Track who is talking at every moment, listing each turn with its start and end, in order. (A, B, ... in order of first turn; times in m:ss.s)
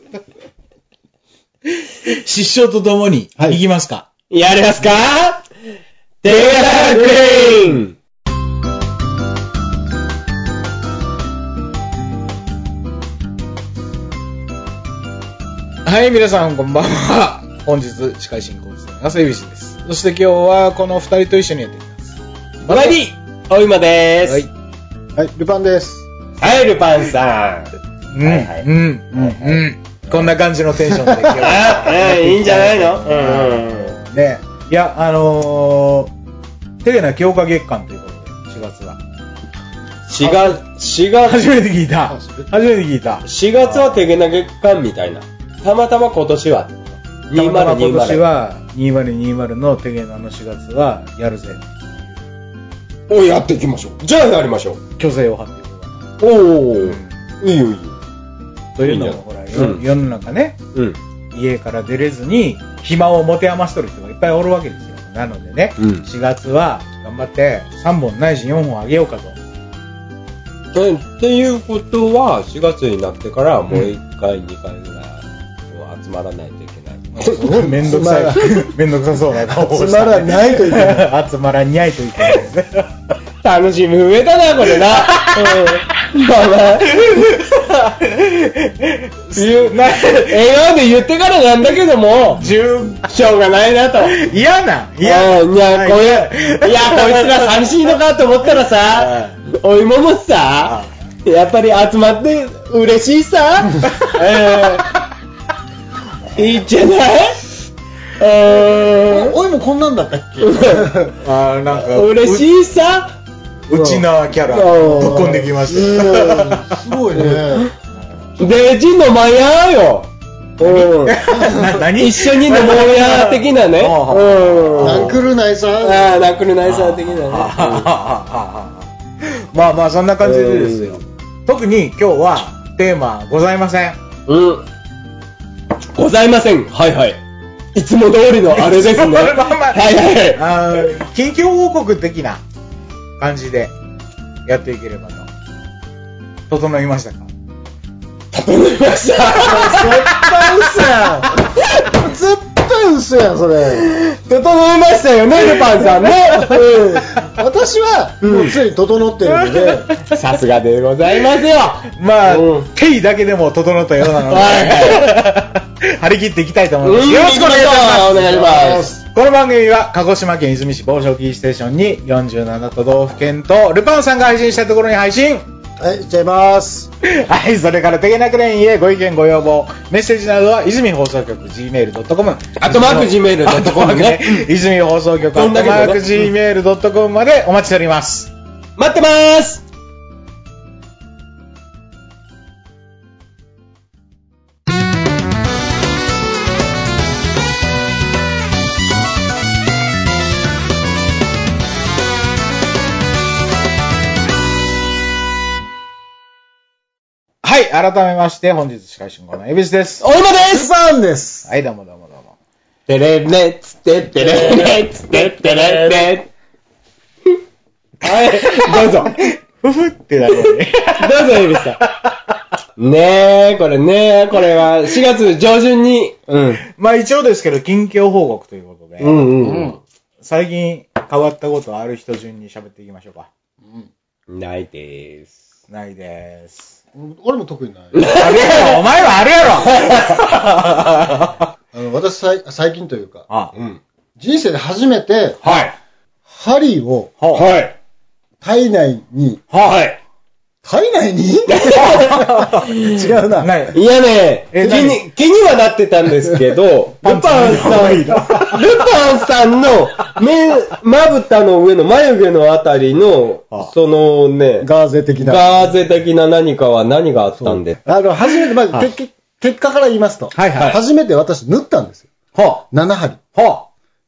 0:01.9-0:04.1 A
0:04.3-0:05.5 B
0:06.2-0:07.9 B
0:15.8-0:23.0 A
0:22.7-0:24.4 B
0:25.2-0:26.1 C
0:26.4-0:27.7 B
0:28.1-0:36.1 A
0:28.2-0:28.6 B
0:29.1-0:29.6 C
0:30.9-0:31.4 C
0:31.4-0:34.0 B
0:36.8-0:39.0 A
0:40.1-0:41.5 B
0:41.2-0:44.0 A
0:42.1-0:42.5 C
0:43.2-0:48.2 B
0:47.3-0:51.7 A
0:53.1-0:54.8 B
0:55.0-0:56.1 A
0:56.2-0:58.0 B
0:56.8-0:57.1 A
0:58.8-1:00.6 A
0:58.9-0:59.8 B
1:01.3-1:09.4 A
1:05.8-1:06.0 B
1:10.7-1:17.3 B
1:17.2-1:22.9 A
1:17.2-1:18.7 C
1:19.5-1:21.1 C
1:23.4-1:27.2 B
1:24.9-1:25.8 A
1:27.0-1:30.5 A
1:29.4-1:32.5 B
1:32.4-1:33.1 A
1:33.1-1:34.2 B
1:34.1-1:37.9 A
1:35.0-1:40.7 B
1:38.9-1:39.4 A
1:40.6-1:40.9 A
1:41.2-1:44.9 B
1:46.4-1:47.4 B
1:48.2-1:49.4 B
1:49.1-1:51.1 C
1:50.4-1:51.0 B
1:51.2-1:52.5 A
1:51.7-1:53.2 B
1:53.7-1:56.8 A
1:53.7-1:54.0 C
1:54.5-1:57.7 B
1:55.0-1:57.7 C
1:58.4-2:01.2 B
2:00.6-2:05.2 A
2:02.0-2:05.1 B
2:04.8-2:06.1 C
2:05.8-2:07.9 B
2:06.6-2:14.0 A
2:10.2-2:11.0 B
2:14.3-2:14.6 B
2:16.0-2:17.2 B
2:17.8-2:20.4 B
2:18.5-2:22.4 A
2:23.2-2:23.7 A
2:24.5-2:25.3 A
2:26.5-2:27.3 A
2:28.3-2:31.0 B
2:29.4-2:33.9 C
2:31.6-2:31.9 B
2:33.7-2:37.1 B
2:36.4-2:36.6 C
2:37.2-2:39.9 C
2:38.2-2:38.6 B
2:39.3-2:40.4 A
2:40.0-2:42.7 B
2:41.9-2:48.3 A
2:44.2-2:45.1 B
2:46.8-2:48.9 B
2:48.1-2:49.0 C
2:49.0-2:55.4 A
2:55.8-2:56.9 C
2:57.0-3:08.3 A
3:02.6-3:04.5 B
3:05.3-3:06.3 B
3:08.8-3:09.6 B
3:27.4-3:30.0 A
3:30.0-3:30.7 B
3:30.4-3:31.5 C
3:31.5-3:32.3 A
3:32.9-3:36.3 B
3:34.2-3:34.7 C
3:34.6-3:36.0 A
3:38.0-3:39.2 B
3:38.2-3:42.1 A
3:40.4-3:41.8 B
3:42.8-3:46.6 B
3:46.6-3:49.7 A
3:49.0-3:49.8 B
3:50.2-3:53.3 A
3:53.6-3:53.9 C
3:54.3-3:55.4 B
3:55.7-3:56.8 A
3:56.9-3:58.1 C
3:57.9-3:58.8 B
3:58.0-4:01.5 A
3:59.6-4:00.4 B
4:01.7-4:03.2 C
4:03.5-4:03.8 B
4:04.2-4:05.4 C
4:05.4-4:05.7 B
4:06.3-4:07.2 C
4:07.2-4:07.5 A
4:07.3-4:07.8 B
4:08.4-4:09.4 C
4:09.5-4:09.9 A
4:09.6-4:10.0 B
4:10.6-4:13.7 C
4:11.5-4:13.1 B
4:12.1-4:12.8 A
4:13.4-4:13.8 A
4:13.7-4:27.8 B
4:14.5-4:15.0 A
4:17.0-4:18.7 A
4:24.6-4:25.6 C
4:27.5-4:32.1 C
4:30.4-4:30.8 A
4:32.4-4:32.6 A
4:32.7-4:33.2 C
4:33.4-4:33.7 A